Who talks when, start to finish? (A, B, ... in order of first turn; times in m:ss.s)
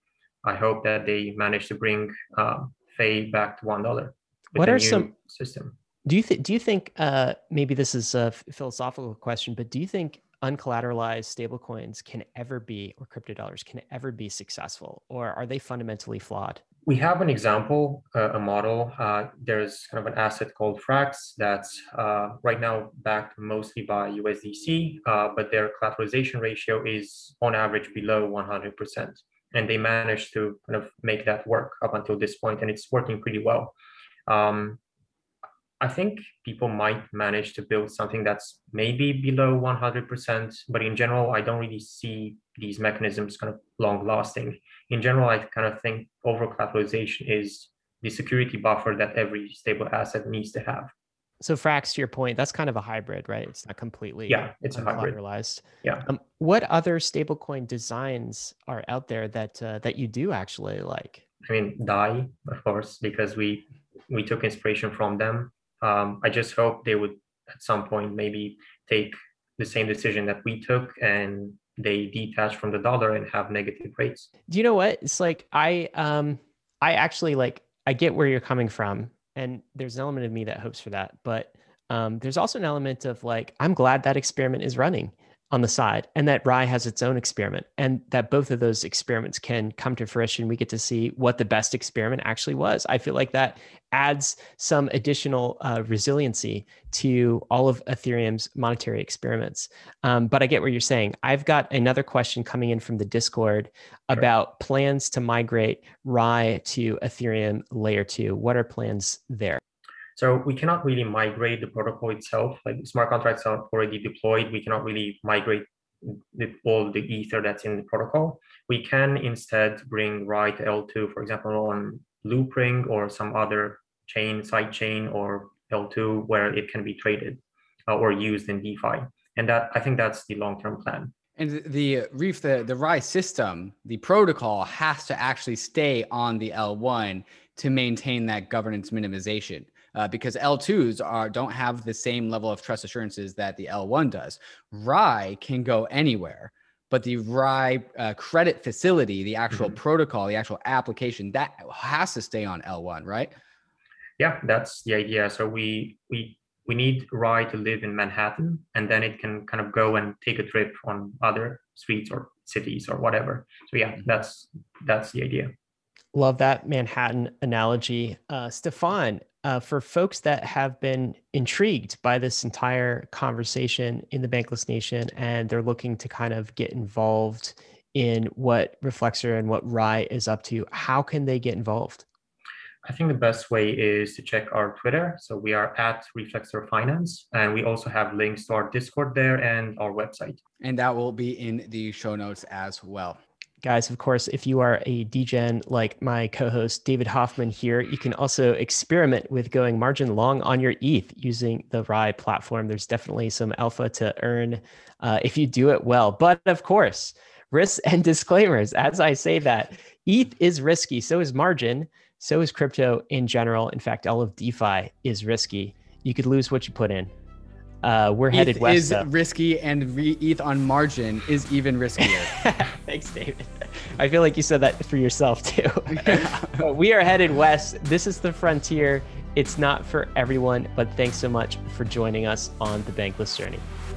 0:00.4-0:05.8 A
0:04.6-0:05.1 B
0:06.0-0:16.6 B
0:16.8-0:33.8 A
0:34.3-0:34.8 A
0:35.8-0:50.9 A
0:51.4-1:01.2 B
0:54.3-0:55.2 A
1:01.4-1:14.3 A
1:14.5-1:49.6 B
1:50.2-2:11.1 A
2:11.4-2:33.3 C
2:34.2-2:45.5 A
2:46.2-3:02.0 B
3:02.8-3:10.4 A
3:10.6-3:13.2 C
3:13.6-3:37.1 B
3:37.8-3:39.1 B
3:38.3-3:42.4 C
3:42.0-3:53.7 B
3:45.9-3:46.7 C